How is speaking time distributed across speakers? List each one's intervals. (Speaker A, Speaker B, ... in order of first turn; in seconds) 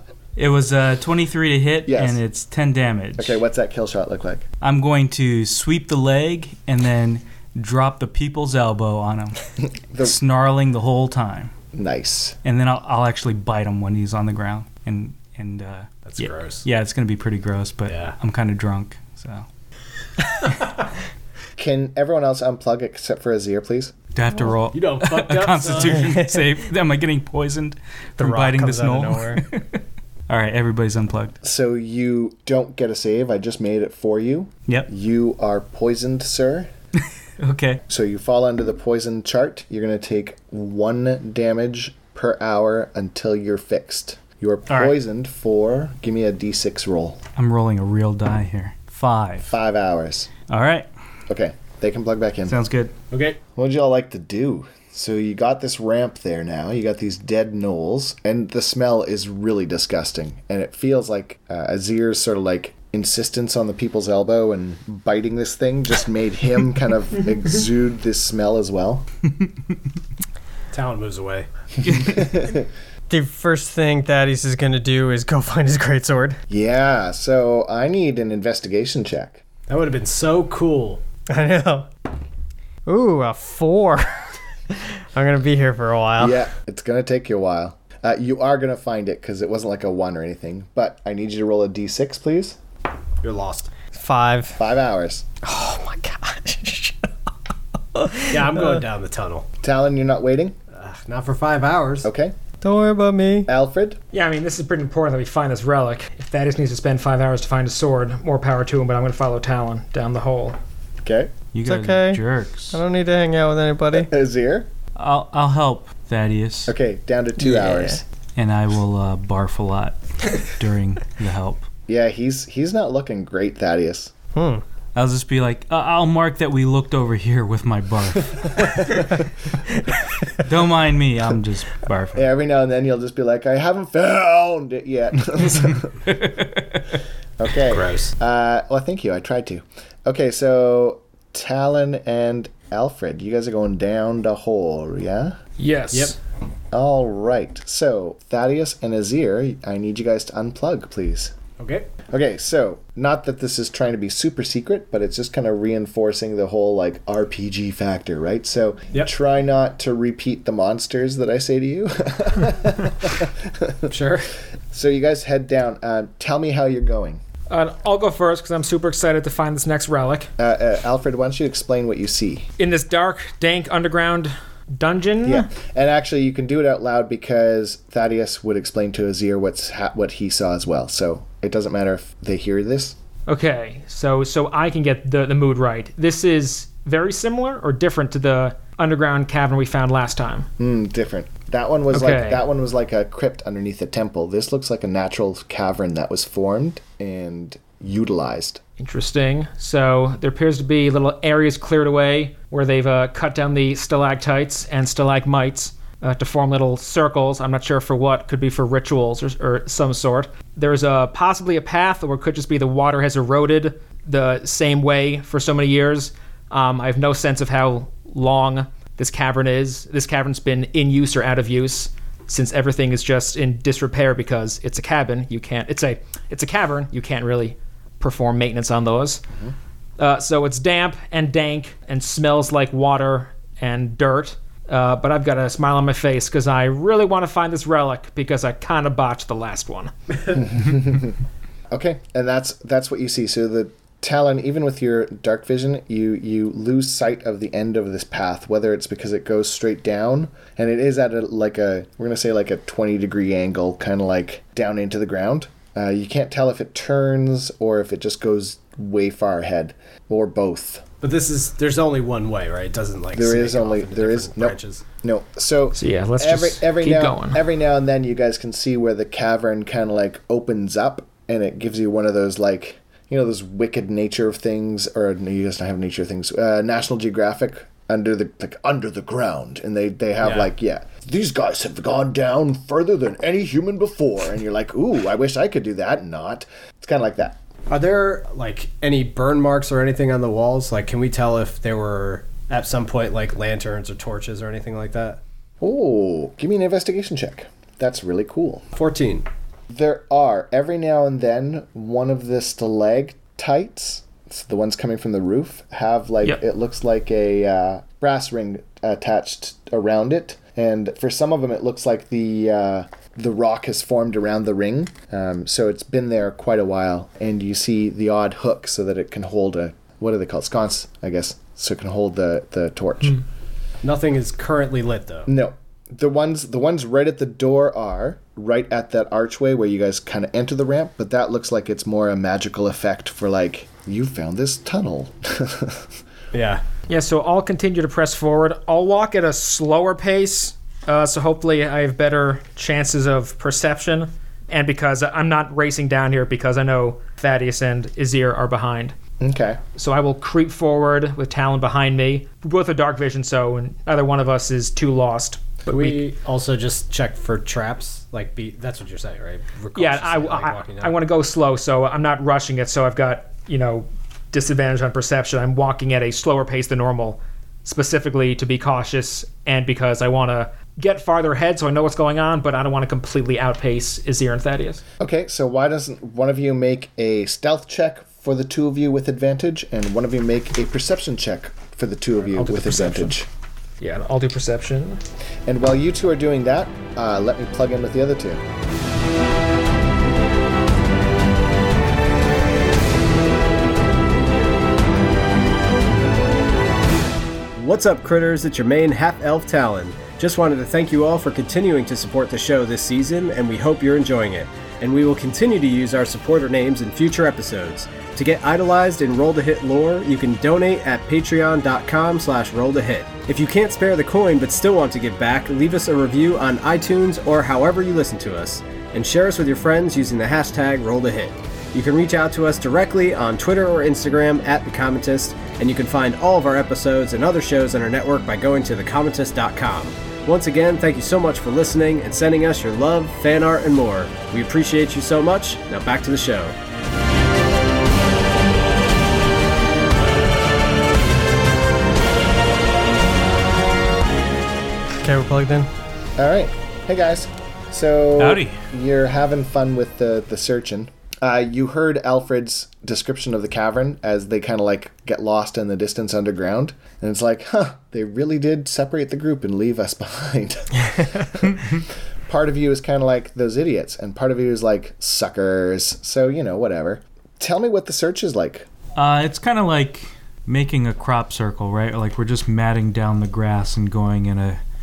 Speaker A: 0.4-3.4, 4.6-11.5, 12.4-19.4, 24.1-31.4, 37.4-37.8, 44.7-44.9, 47.4-49.5, 50.5-50.9, 52.5-52.9, 111.5-112.8, 115.0-116.7, 118.4-121.7, 124.9-129.1, 130.3-132.3, 136.1-136.7, 448.2-448.6, 468.9-474.6
Speaker B: 1.9-2.2, 3.2-4.5, 9.9-10.1, 11.7-12.4, 21.6-23.9, 31.4-36.7, 37.9-47.2, 49.5-50.3, 51.3-52.6, 53.5-69.0, 71.9-72.6, 76.5-79.4, 86.2-92.6, 94.6-95.2, 99.6-100.5, 102.0-102.3, 103.5-104.0, 111.0-111.3, 113.9-114.7, 116.7-118.0, 121.9-124.1, 132.1-136.0, 137.4-145.4, 146.7-151.4, 152.1-163.9, 164.7-167.2, 170.4-172.5, 175.2-182.9, 190.6-198.6, 240.3-241.2, 241.7-260.9, 263.1-287.4, 295.6-298.7, 299.7-323.2, 325.3-335.9, 349.2-349.6, 375.0-383.2, 385.4-388.4, 446.2-468.7
Speaker C: 16.0-16.6, 17.9-18.1, 24.7-26.1, 53.1-53.4, 70.7-71.5, 79.7-81.0, 93.2-93.7, 98.3-99.5, 100.7-102.1, 137.7-138.1, 151.6-151.9, 163.9-164.3, 261.0-264.8, 280.2-280.5, 287.7-295.2, 298.7-299.3, 323.8-325.3, 336.3-336.6, 355.7-361.0, 397.5-436.5
Speaker D: 26.1-26.4, 28.2-29.4, 73.1-76.4, 81.3-81.9, 82.8-86.4, 93.9-94.6, 95.4-97.1, 97.9-98.7, 102.6-103.5, 111.7-114.1, 117.4-118.0, 124.3-124.6, 445.0-445.7
Speaker E: 104.1-110.6, 145.6-146.2, 167.5-170.3, 172.6-175.5, 183.3-190.5, 191.9-192.4, 198.8-229.2, 230.0-239.9, 265.7-267.4, 336.9-348.9, 349.7-356.0, 359.7-374.8, 382.3-383.2, 383.8-385.0